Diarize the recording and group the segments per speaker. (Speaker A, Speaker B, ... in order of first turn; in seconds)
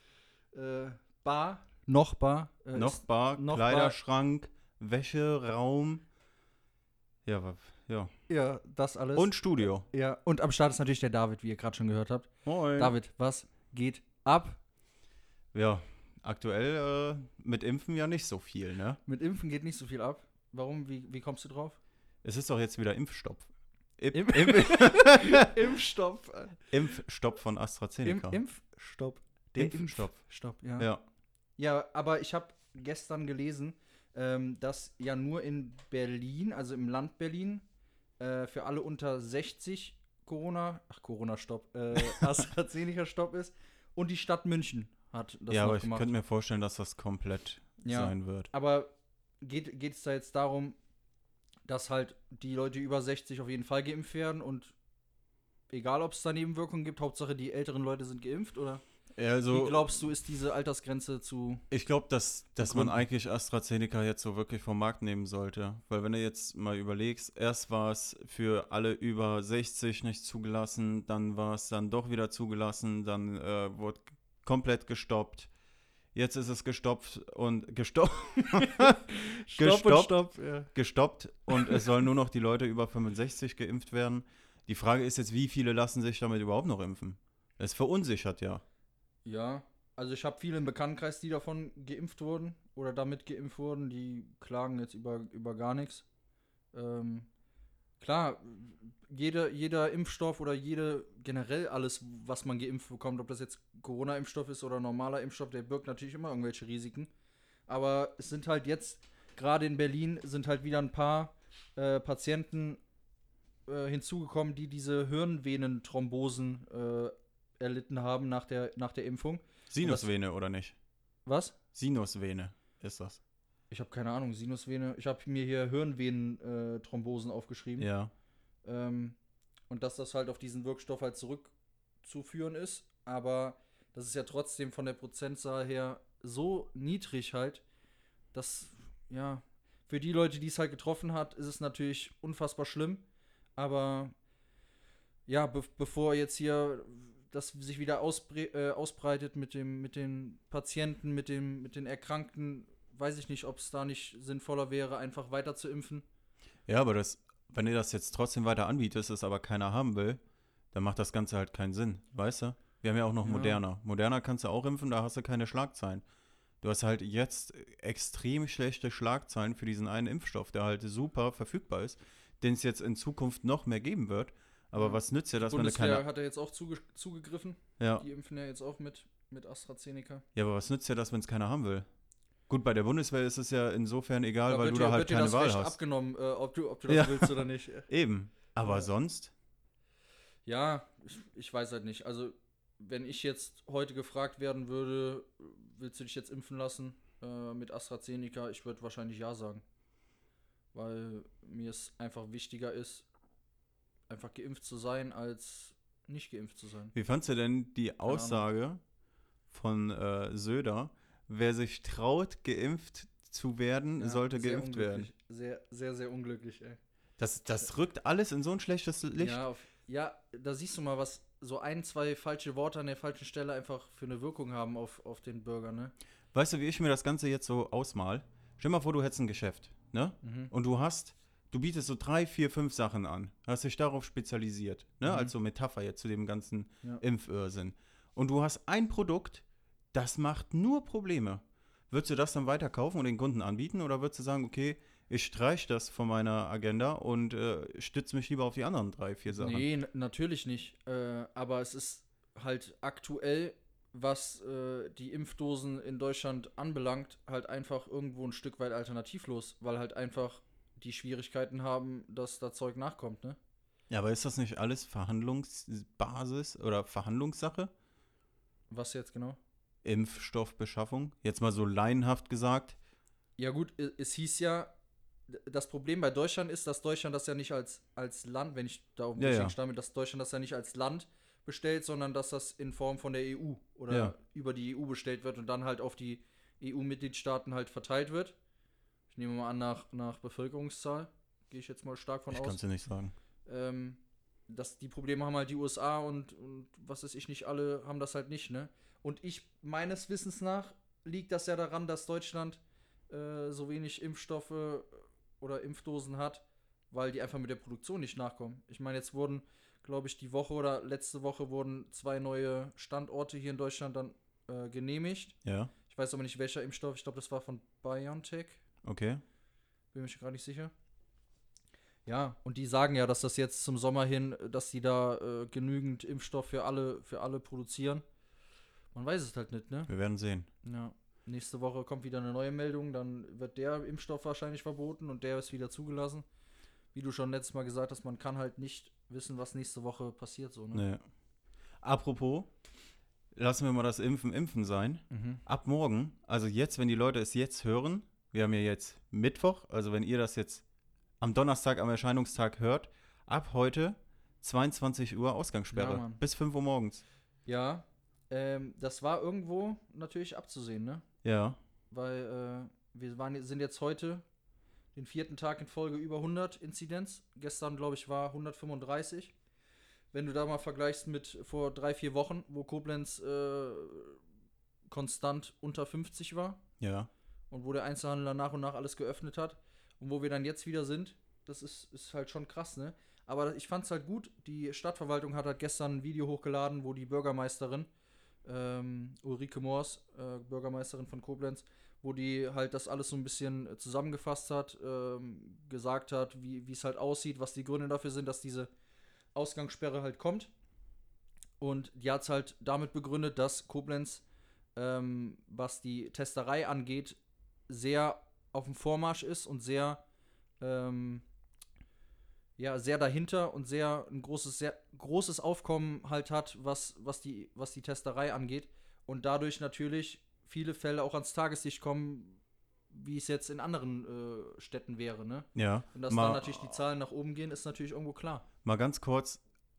Speaker A: 0.5-4.0, 8.3-9.3, 9.9-14.6, 19.1-21.8, 24.1-26.7, 28.0-30.9, 31.6-37.6, 38.2-46.1, 47.8-50.8, 51.6-54.7, 55.7-58.8, 59.5-61.6, 62.6-63.0, 78.5-80.7, 81.5-81.8, 89.2-96.0, 96.7-97.3, 98.0-107.1, 107.7-112.8, 113.7-120.1, 121.2-121.5, 123.7-127.9, 128.6-129.2, 129.7-131.5, 132.0-137.6, 138.3-143.0, 143.6-144.1, 145.3-156.0, 163.2-163.6, 174.8-180.2, 184.5-187.9, 190.4-199.6, 200.7-203.1, 204.1-206.9, 208.1-208.4, 214.0-216.8, 219.2-225.9, 230.2-230.5, 235.0-235.3, 249.3-263.4, 268.7-269.4, 273.4-274.7, 275.3-288.4, 289.1-292.6, 293.4-315.4, 315.9-318.6, 319.9-320.7, 322.1-328.0, 328.9-329.9, 330.6-336.2, 336.9-340.8, 345.1-345.4, 355.7-356.2, 357.4-361.1, 361.9-364.2, 364.9-369.3, 370.1-374.2, 374.9-376.6, 377.5-387.9, 388.4-398.7, 399.3-400.5, 401.6-404.2, 404.8-407.2, 407.7-410.0, 410.6-411.2, 412.6-428.4
Speaker B: 2.7-6.0, 7.2-8.1, 9.2-9.9, 12.4-12.9, 15.5-19.0, 22.2-25.5, 26.7-28.4, 29.6-30.2, 30.8-31.0, 42.0-42.3, 45.5-48.5, 59.1-59.9, 61.7-75.5, 76.1-88.6, 119.7-120.7, 121.7-123.2, 127.8-128.1, 156.7-160.2, 160.7-166.0, 166.6-176.0, 177.8-178.0, 180.3-181.9, 182.5-185.8, 186.9-189.3, 206.9-208.8, 209.5-215.1, 217.2-219.4, 226.3-249.7, 263.9-267.7, 269.8-272.8, 279.2-279.5, 283.9-284.1, 292.3-293.1, 315.4-315.7, 318.8-319.2, 329.9-330.5, 340.7-341.0, 341.8-342.5, 343.3-350.6, 351.2-357.0, 361.2-361.6, 376.8-377.1, 425.5-426.8, 428.6-429.4